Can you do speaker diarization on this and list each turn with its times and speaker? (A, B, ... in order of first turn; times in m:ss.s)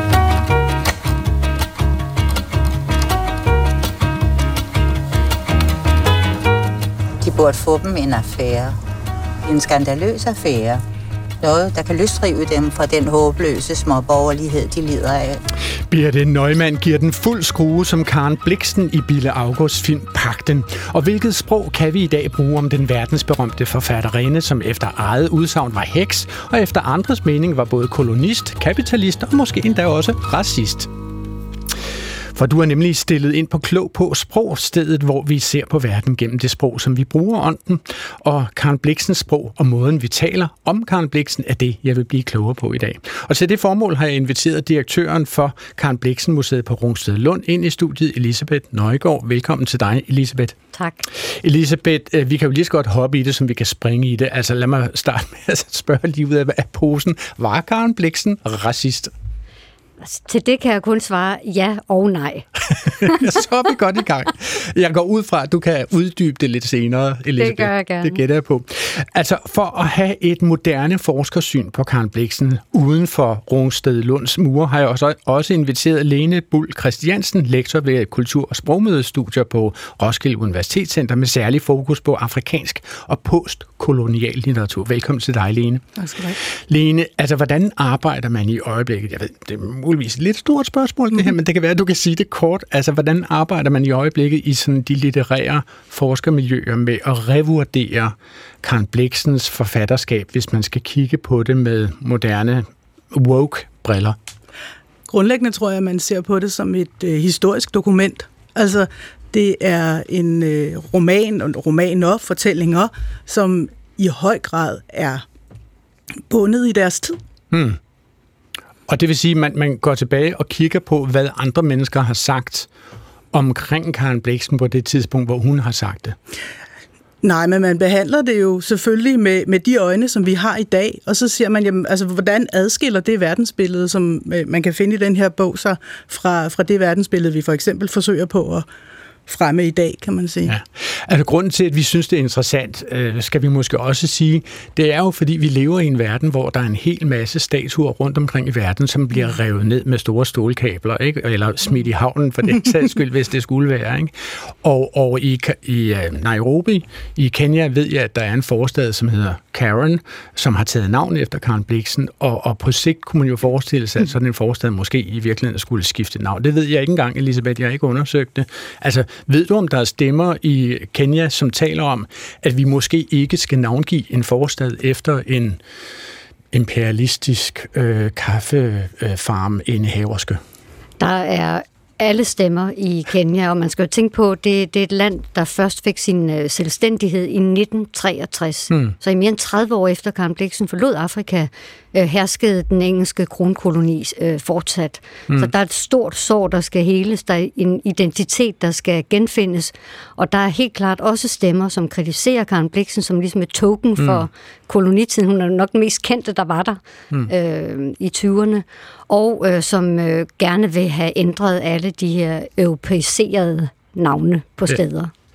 0:07.2-0:08.8 A
0:09.4-0:10.8 A
0:11.4-0:15.4 A
0:15.9-0:30.9 B
0:32.3-0:50.6 B
0:50.7-0:51.0 C
0:51.1-0:59.1 B
1:00.0-1:02.5 C
1:02.7-1:44.2 B
1:07.4-1:08.2 C
1:45.1-1:55.2 D
1:56.3-1:57.2 D
1:57.5-1:57.8 B
1:58.9-2:02.7 B
2:03.3-2:06.2 B
2:07.2-2:18.6 D
2:19.3-2:20.5 D
2:20.5-2:55.6 B
2:56.5-3:00.4 B
3:01.0-3:35.1 C
3:24.0-3:24.2 B